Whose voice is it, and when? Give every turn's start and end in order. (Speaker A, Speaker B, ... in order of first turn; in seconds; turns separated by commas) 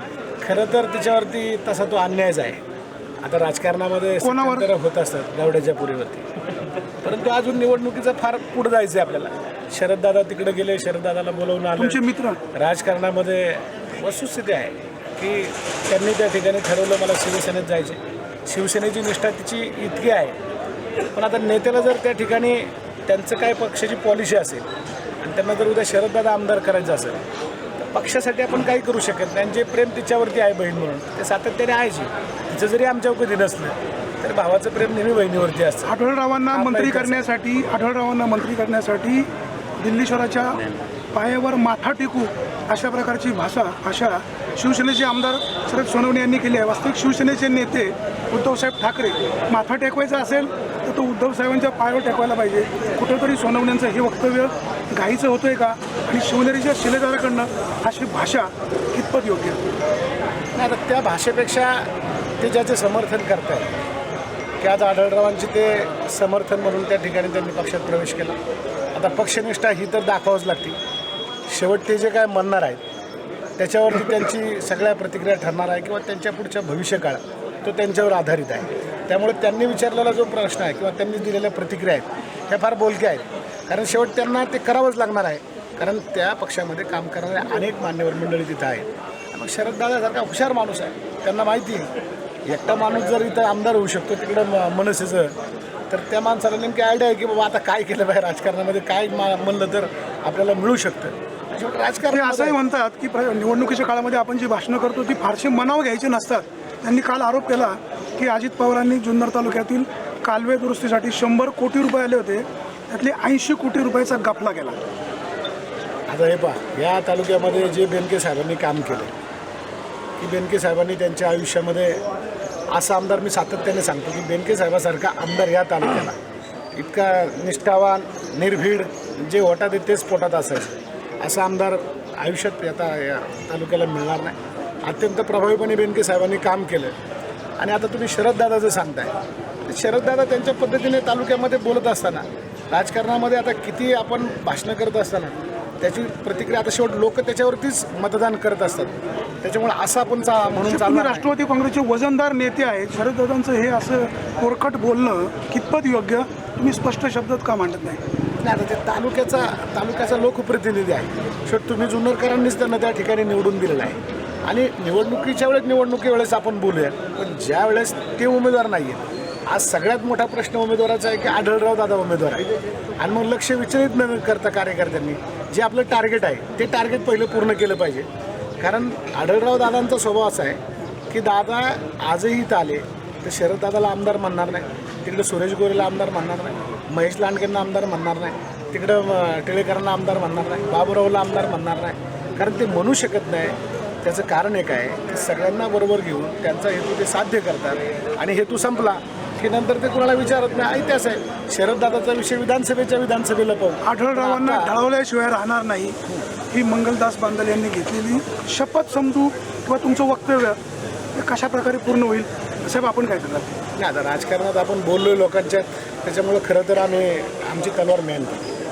Speaker A: 0.4-2.6, Speaker A: 3.2-6.2, Speaker B: 4.2-4.7, Speaker A: 7.0-12.0, Speaker B: 11.8-12.4, Speaker A: 12.5-20.4, Speaker A: 21.1-24.7, Speaker A: 25.2-27.2, Speaker A: 27.8-35.9, Speaker B: 35.9-59.6, Speaker A: 36.5-37.3, Speaker A: 60.5-61.9, Speaker A: 62.4-63.7, Speaker A: 64.6-68.4, Speaker A: 68.9-70.8, Speaker A: 71.5-72.8, Speaker A: 73.6-91.9, Speaker A: 92.5-95.3, Speaker A: 95.9-102.6, Speaker B: 102.0-114.8, Speaker A: 116.1-119.1, Speaker A: 120.2-122.0, Speaker A: 122.7-126.2, Speaker A: 126.8-136.9, Speaker A: 137.6-139.1, Speaker A: 139.6-151.3, Speaker B: 150.6-158.0, Speaker A: 158.4-172.5, Speaker A: 173.0-178.1, Speaker A: 178.6-204.7, Speaker B: 203.8-206.0, Speaker B: 206.5-210.6, Speaker B: 211.2-213.6, Speaker A: 213.8-218.4